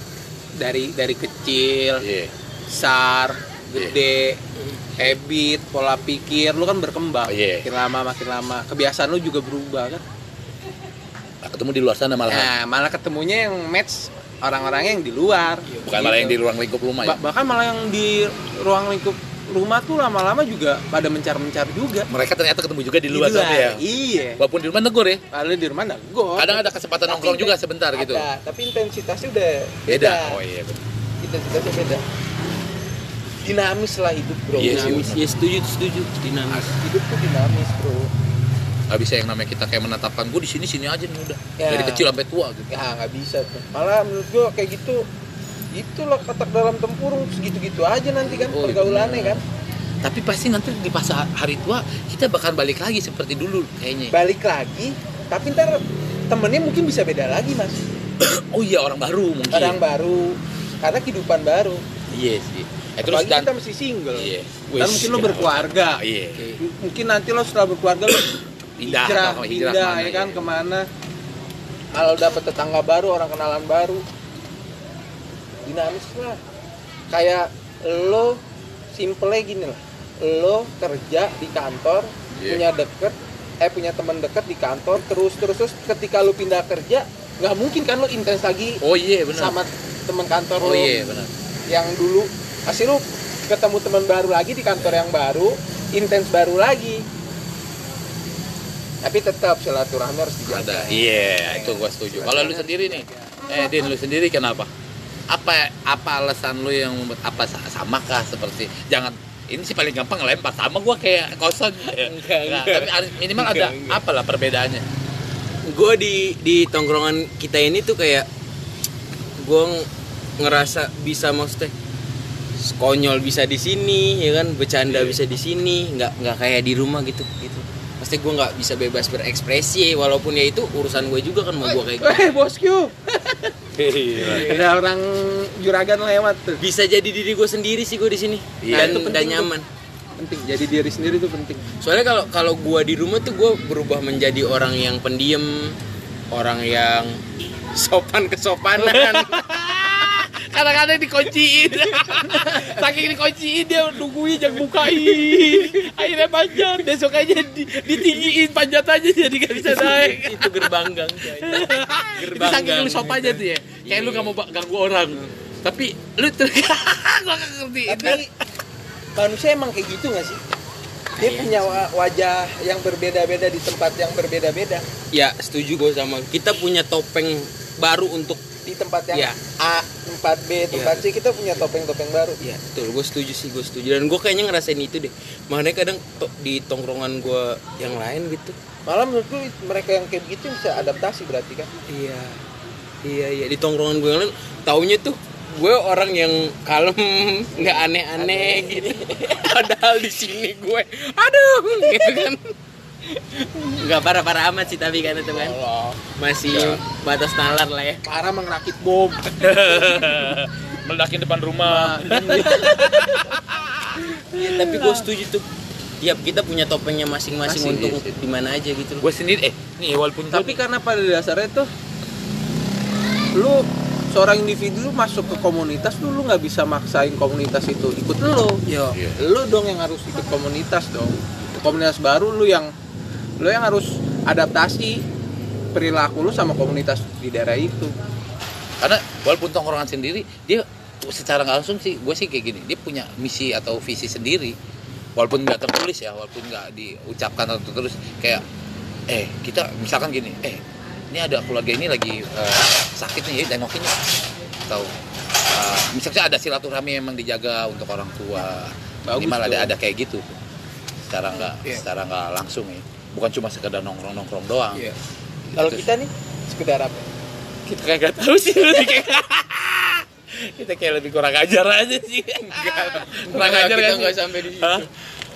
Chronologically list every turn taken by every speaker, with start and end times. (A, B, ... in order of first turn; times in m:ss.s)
0:00.6-0:02.0 A
0:02.0-0:02.3 B
0:02.7-0:04.4 A
0:05.0-0:10.0 A
0:07.3-0:07.7 B
0:11.4-0:12.5 B
0:12.3-0:16.4 A
0:15.8-0:17.2 B
0:17.0-0:22.1 A
0:22.1-0:23.8 B
0:23.1-0:24.4 A
0:24.4-0:25.2 B
0:25.3-0:30.4 A
0:26.4-0:28.3 B
0:29.9-0:30.8 B
0:31.2-0:32.0 A
0:33.4-0:35.1 A
0:34.5-0:35.3 B
0:34.6-0:36.8 C
0:36.5-0:38.1 A
0:38.9-0:42.8 B
0:41.6-0:42.1 A
0:42.7-0:45.0 A
0:45.7-0:49.4 A
0:48.3-0:49.4 B
0:50.0-0:54.1 B
0:54.1-0:57.8 A
0:58.2-0:59.8 B
0:59.5-1:01.8 A
1:02.1-1:03.5 B
1:03.0-1:06.0 A
1:04.1-1:06.5 B
1:06.6-1:10.9 A
1:08.8-1:10.5 B
1:11.9-1:14.0 A
1:15.7-1:16.4 A
1:17.1-1:18.4 A
1:18.9-1:37.0 A
1:22.3-1:22.6 B
1:28.8-1:29.6 B
1:30.6-1:31.3 B
1:39.0-1:43.4 A
1:40.4-1:44.7 B
1:45.3-1:54.8 B
1:51.9-1:54.0 C
1:55.7-1:58.3 C
1:59.4-1:59.9 C
2:00.4-2:01.7 C
2:02.6-2:12.4 C
2:04.9-2:05.2 B
2:11.7-2:13.5 A
2:13.8-2:14.6 B
2:14.2-2:16.6 A
2:14.2-2:14.7 C
2:16.6-2:19.7 C
2:18.6-2:19.2 B
2:18.7-2:19.5 A
2:20.2-2:21.6 A
2:21.8-2:25.8 C
2:26.3-2:27.2 C
2:27.7-2:29.4 C
2:28.8-2:40.8 B
2:34.8-2:35.6 C
2:39.6-2:44.4 C
2:41.3-2:48.2 B
2:47.9-2:48.3 A
2:49.2-2:50.4 A
2:51.1-2:51.8 C
2:51.2-2:54.8 A
2:55.1-2:58.4 C
2:58.6-3:02.4 A
2:59.1-2:59.4 C
3:00.7-3:01.0 C
3:02.4-3:08.6 C
3:08.8-3:11.7 A
3:11.9-3:12.4 C
3:13.0-3:22.5 C
3:18.2-3:18.8 A
3:23.1-3:25.6 C
3:25.2-3:26.0 A
3:26.2-3:28.0 C
3:26.5-3:26.8 B
3:28.0-3:29.5 A
3:29.4-3:34.8 B
3:31.6-3:33.1 A
3:34.3-3:35.4 C
3:36.0-3:39.0 C
3:37.5-3:38.1 B
3:39.0-3:40.6 B
3:40.3-3:41.7 A
3:43.3-3:52.7 A
3:48.9-3:49.2 B
3:53.4-3:55.0 A
3:55.7-3:57.9 A
3:58.8-4:04.6 B
4:05.2-4:08.4 B
4:09.1-4:14.0 B
4:15.5-4:20.4 B
4:19.1-4:19.7 A
4:21.1-4:24.9 B
4:25.5-4:25.9 B
4:25.6-4:27.1 A
4:27.7-4:34.9 B
4:32.5-4:34.9 C